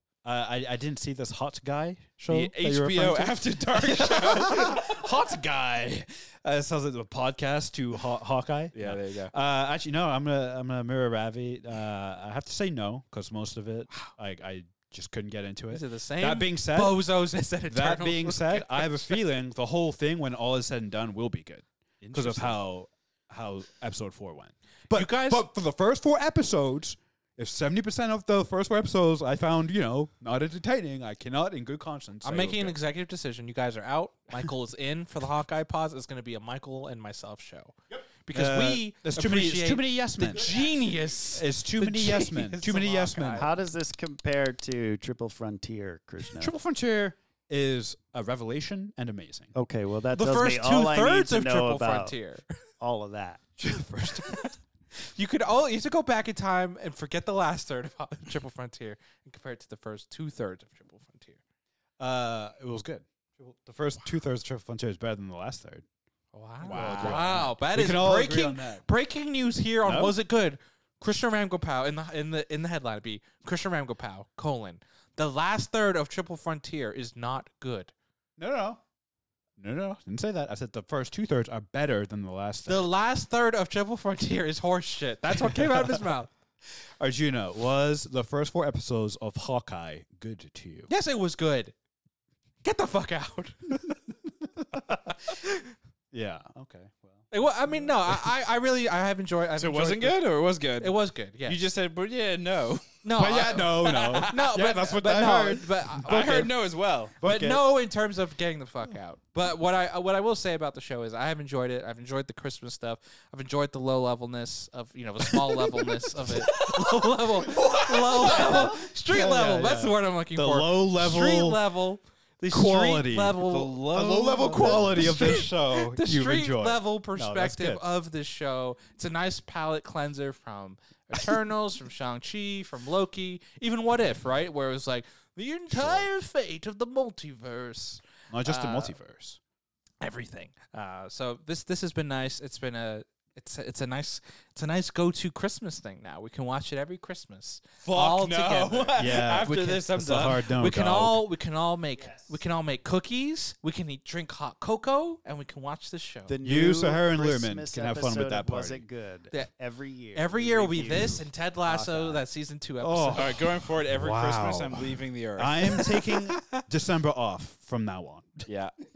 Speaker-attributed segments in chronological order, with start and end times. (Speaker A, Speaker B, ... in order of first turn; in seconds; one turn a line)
Speaker A: 0.2-17.0
Speaker B: 2.3-5.0
Speaker B: 8.7-9.3
Speaker C: 15.7-19.2
Speaker A: 17.7-32.8
Speaker B: 22.1-22.5
Speaker C: 24.9-25.5
Speaker C: 32.2-43.5
Speaker A: 38.3-40.6
Speaker A: 41.3-43.5
Speaker D: 43.4-46.5
Speaker A: 46.3-49.5
Speaker D: 49.5-52.1
Speaker C: 50.1-52.5
Speaker D: 52.8-53.4
Speaker A: 53.6-54.5
Speaker C: 54.1-61.4
Speaker A: 62.0-65.8
Speaker C: 66.3-77.9
Speaker B: 66.6-67.4
Speaker A: 66.7-68.8
Speaker A: 69.8-70.2
Speaker A: 78.4-78.8
Speaker A: 79.6-82.9
Speaker C: 82.7-86.3
Speaker A: 85.4-86.1
Speaker A: 86.8-90.9
Speaker C: 90.9-91.7
Speaker C: 92.6-94.0
Speaker A: 94.6-95.2
Speaker C: 95.2-95.7
Speaker A: 96.1-98.2
Speaker C: 97.3-101.6
Speaker B: 99.6-104.4
Speaker C: 103.0-106.5
Speaker A: 103.2-106.5
Speaker B: 106.0-107.2
Speaker A: 107.2-107.7
Speaker C: 107.2-123.9
Speaker A: 115.4-116.5
Speaker A: 117.7-121.6
Speaker A: 122.5-127.8
Speaker B: 123.4-125.2
Speaker C: 124.4-139.0
Speaker A: 135.7-136.1
Speaker A: 138.3-139.4
Speaker C: 140.0-149.9
Speaker B: 147.8-150.4
Speaker A: 149.0-151.2
Speaker C: 150.4-156.4
Speaker D: 152.0-152.4
Speaker D: 156.3-162.2
Speaker A: 156.4-158.8
Speaker C: 160.1-163.4
Speaker A: 162.8-168.5
Speaker B: 163.1-166.1
Speaker B: 168.5-168.8